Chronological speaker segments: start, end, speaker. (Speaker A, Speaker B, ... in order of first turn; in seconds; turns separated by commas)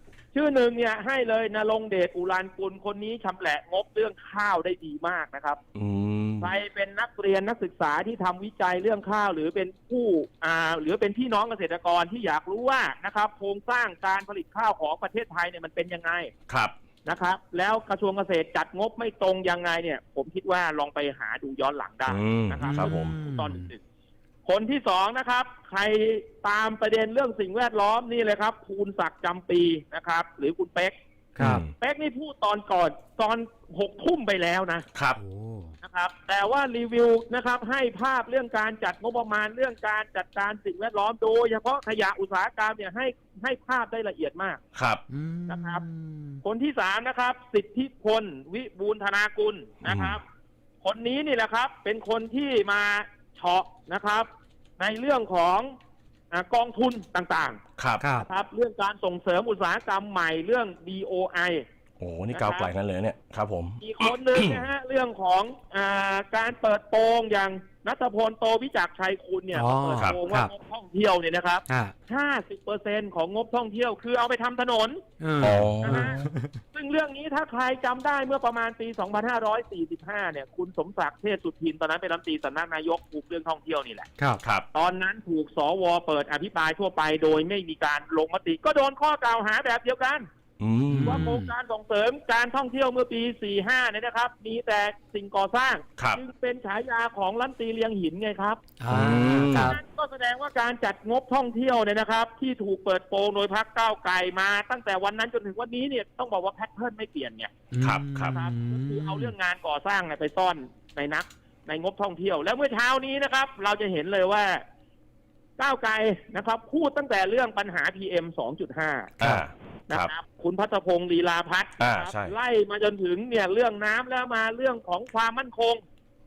Speaker A: 0.3-5.6, Speaker B: 5.8-6.5, Speaker A: 6.4-16.3, Speaker A: 17.1-23.8, Speaker B: 22.1-23.1, Speaker C: 22.6-23.7, Speaker A: 24.4-30.9, Speaker C: 31.4-31.6, Speaker B: 31.4-31.7, Speaker A: 31.8-34.9, Speaker B: 34.9-35.2, Speaker C: 35.2-35.8, Speaker A: 35.8-44.6, Speaker B: 44.7-45.0, Speaker C: 45.1-46.4, Speaker A: 45.5-45.8, Speaker A: 46.4-50.2, Speaker B: 49.8-50.2, Speaker A: 50.8-54.3, Speaker A: 54.8-55.7, Speaker A: 56.3-57.6, Speaker B: 57.8-58.0, Speaker C: 58.0-58.3, Speaker A: 58.2-61.6, Speaker B: 62.0-64.7, Speaker A: 62.3-62.7, Speaker A: 63.8-76.2, Speaker C: 69.5-70.5, Speaker C: 71.7-71.9, Speaker C: 75.2-76.6, Speaker B: 75.4-76.3, Speaker A: 76.7-84.1, Speaker A: 84.7-90.3, Speaker B: 90.6-91.3, Speaker C: 90.9-91.5, Speaker A: 91.0-98.6, Speaker C: 98.8-99.8, Speaker B: 98.9-99.7, Speaker A: 99.5-107.5, Speaker C: 107.7-109.3, Speaker B: 107.8-108.3, Speaker A: 108.3-114.6, Speaker A: 115.6-119.1, Speaker B: 119.2-120.1, Speaker A: 119.9-125.8, Speaker B: 121.8-122.3